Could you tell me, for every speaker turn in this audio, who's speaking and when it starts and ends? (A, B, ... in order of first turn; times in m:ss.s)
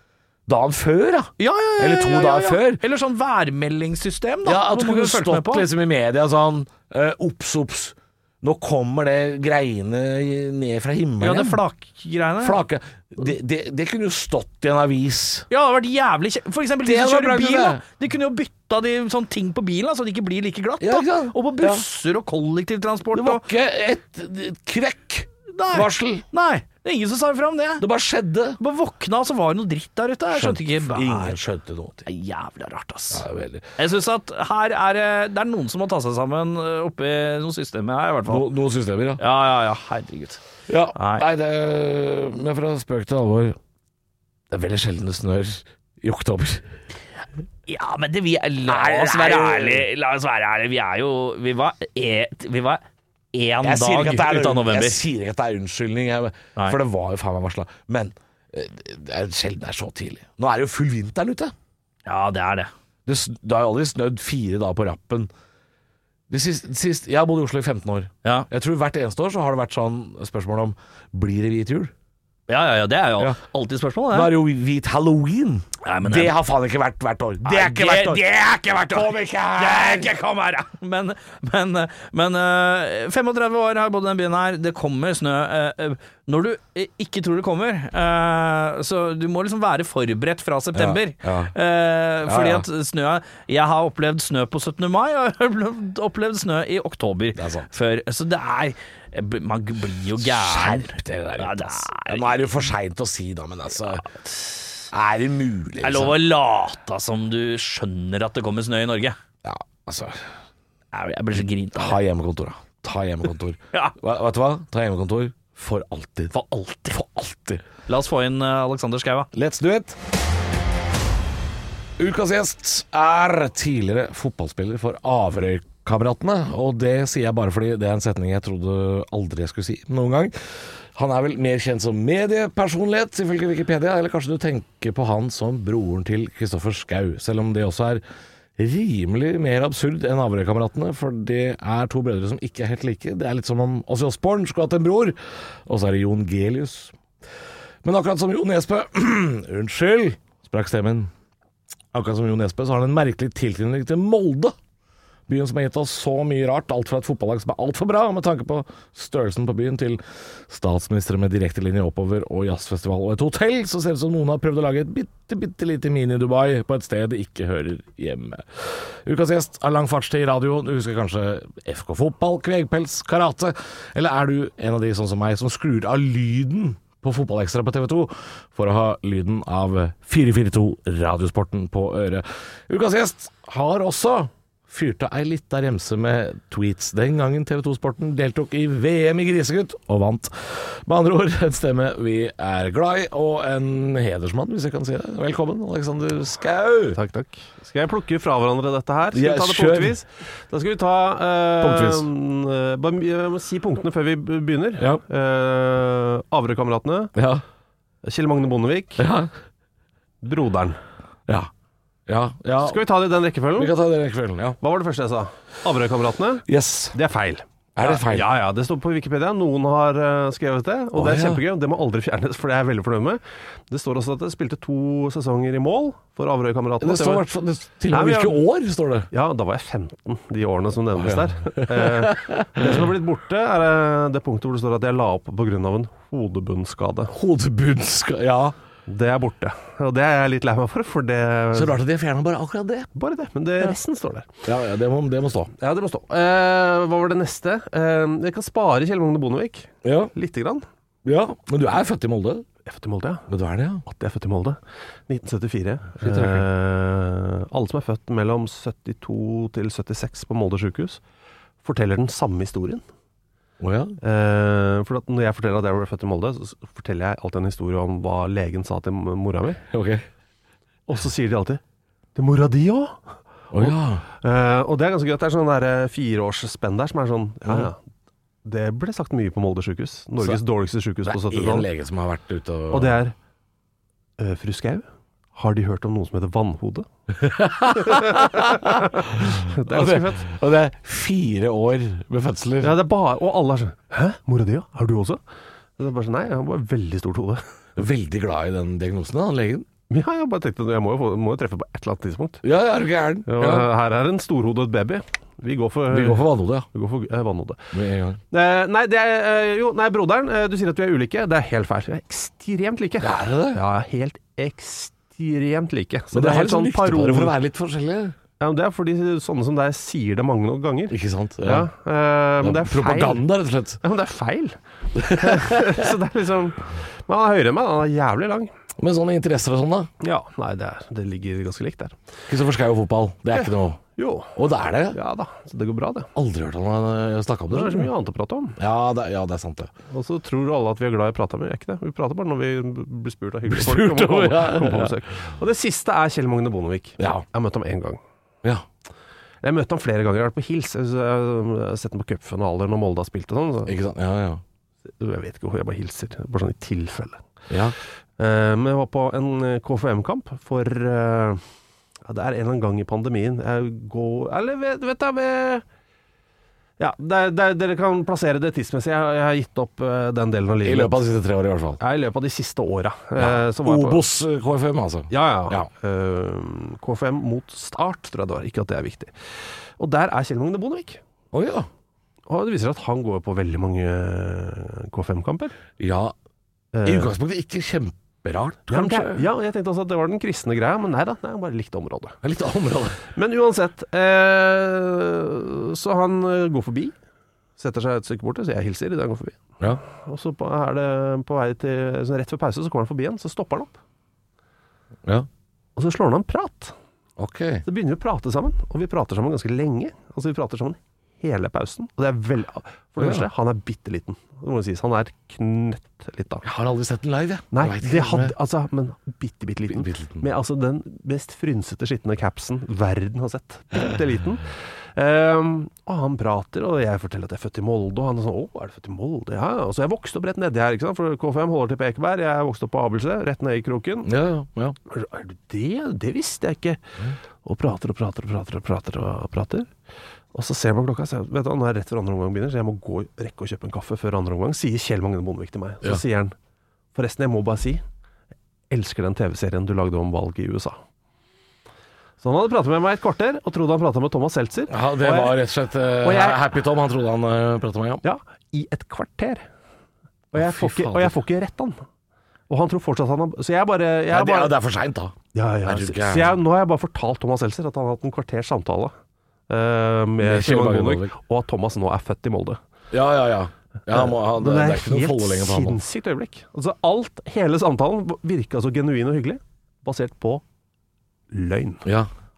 0:00.5-0:02.8 A
0:01.4-0:05.7 B
0:04.4-0:11.6 A
0:11.2-0:12.6 B
0:12.4-0:15.5 A
0:15.5-0:23.4 B
0:16.8-0:17.8 A
0:20.8-0:21.8 A
0:23.1-0:26.2 A
0:25.5-0:27.8 B
0:27.8-0:28.6 A
0:28.6-0:31.4 B
0:30.3-0:32.1 A
0:32.0-0:33.2 B
0:33.1-0:33.7 A
0:33.8-0:38.5 B
0:38.3-0:39.2 A
0:39.2-0:40.4 B
0:40.7-0:43.6 A
0:41.0-0:41.2 B
0:44.5-0:46.6 A
0:47.7-0:52.8 B
0:48.6-0:49.9 A
0:53.3-0:55.0 B
0:53.6-1:01.5 A
1:02.0-1:02.7 B
1:03.0-1:05.3 A
1:06.3-1:11.9 A
1:12.5-1:14.3 B
1:14.1-1:18.2 A
1:15.8-1:16.3 B
1:17.4-1:42.4 B
1:18.8-1:20.1 A
1:30.7-1:31.5 A
1:32.2-1:32.6 A
1:37.3-1:37.7 A
1:40.2-1:44.0 A
1:44.0-1:44.7 B
1:44.9-1:46.2 A
1:45.8-1:49.2 B
1:49.4-1:50.3 A
1:50.9-1:52.0 B
1:51.7-1:56.3 A
1:56.3-1:56.9 B
1:56.9-1:57.6 A
1:57.9-1:59.3 B
1:59.3-2:00.0 A
2:02.0-2:18.0 A
2:18.6-2:26.9 A
2:27.8-2:31.1 A
2:31.9-2:34.5 A
2:35.3-3:17.0 A
3:16.9-3:27.1 C
3:19.1-3:20.0 A
3:21.6-3:22.1 A
3:24.8-3:25.0 A
3:27.1-3:27.4 A
3:28.0-3:29.0 C
3:29.0-3:29.3 A
3:30.2-3:30.8 C
3:32.1-3:32.8 A
3:32.6-3:33.7 C
3:33.6-3:34.6 A
3:34.6-3:47.2 C
3:36.5-3:36.9 A
3:37.8-3:38.3 A
3:41.0-3:41.4 A
3:46.8-3:49.1 A
3:47.9-3:48.4 C
3:49.1-3:57.1 C
3:51.0-3:52.9 A
3:57.1-3:58.5 A
3:58.9-4:01.8 C
4:01.5-4:02.9 A
4:02.9-4:04.4 C
4:04.4-4:05.5 A
4:05.5-4:10.6 C
4:09.8-4:10.1 A
4:11.0-4:12.4 A
4:12.6-4:13.3 C
4:13.3-4:13.8 A
4:13.8-4:21.0 C
4:16.0-4:16.4 A
4:21.6-4:22.8 C
4:23.6-4:24.0 A
4:24.0-4:29.6 C
4:29.7-4:30.0 A
4:30.9-4:31.6 C
4:32.1-4:37.8 C
4:33.5-4:34.0 A
4:38.4-4:41.7 C
4:41.0-4:43.0 A
4:42.7-4:43.1 C
4:44.2-4:46.9 C
4:47.2-4:52.8 A
4:47.7-4:50.3 C
4:52.6-4:55.2 C
4:55.8-4:57.4 C
4:57.8-4:59.7 A
4:59.9-5:02.4 C
5:02.4-5:03.7 A
5:03.2-5:07.7 C
5:05.9-5:06.7 A
5:07.7-5:08.2 A
5:08.3-5:17.3 C
5:13.0-5:13.6 A
5:16.1-5:18.2 A
5:18.4-5:23.2 C
5:20.9-5:21.7 A
5:22.4-5:23.8 A
5:23.8-5:28.5 C
5:24.9-5:25.9 A
5:28.8-5:29.9 A
5:30.0-5:32.0 C
5:32.3-5:33.8 A
5:33.3-5:34.4 C
5:34.3-5:35.0 A
5:34.9-5:36.1 C
5:36.1-5:37.9 A
5:37.5-5:38.6 C
5:38.6-5:39.7 A
5:39.9-5:48.0 C
5:43.5-5:45.0 A
5:47.0-5:47.2 A
5:49.4-5:53.8 C
5:53.6-5:54.4 A
5:55.0-5:57.2 C
5:57.5-5:57.7 A
5:58.2-6:01.4 C
6:02.0-6:05.6 C
6:06.8-6:11.0 C
6:10.6-6:11.8 A
6:11.8-6:14.0 C
6:13.2-6:15.7 A
6:15.1-6:19.1 C
6:19.8-6:21.0 C
6:21.3-6:21.7 A
6:22.3-6:25.5 C
6:25.8-6:26.1 A
6:26.7-6:27.1 C
6:26.8-6:29.3 A
6:28.7-6:32.2 C
6:32.2-6:33.0 A
6:33.1-6:36.9 C
6:37.6-6:43.8 C
6:45.8-6:46.7 C
6:47.2-6:47.6 A
6:47.6-6:56.4 C
6:53.0-6:53.3 A
6:56.4-6:58.3 A
6:57.5-7:14.1 C
6:59.7-7:00.2 A
7:14.0-7:14.8 A
7:14.8-7:16.8 C
7:17.4-7:19.7 C
7:20.3-7:26.3 C
7:26.9-7:27.8 C
7:28.7-7:30.8 C
7:32.2-7:35.4 C
7:34.7-7:38.0 A
7:36.0-7:36.4 C
7:38.0-7:39.4 C
7:40.3-7:41.8 C
7:40.3-7:41.2 A
7:42.5-7:44.5 C
7:44.1-7:46.4 A
7:45.3-7:48.9 C
7:49.5-7:52.6 C
7:50.2-7:51.1 A
7:52.9-7:55.8 A
7:53.9-8:00.4 C
8:01.3-8:01.8 C
8:01.8-8:02.1 A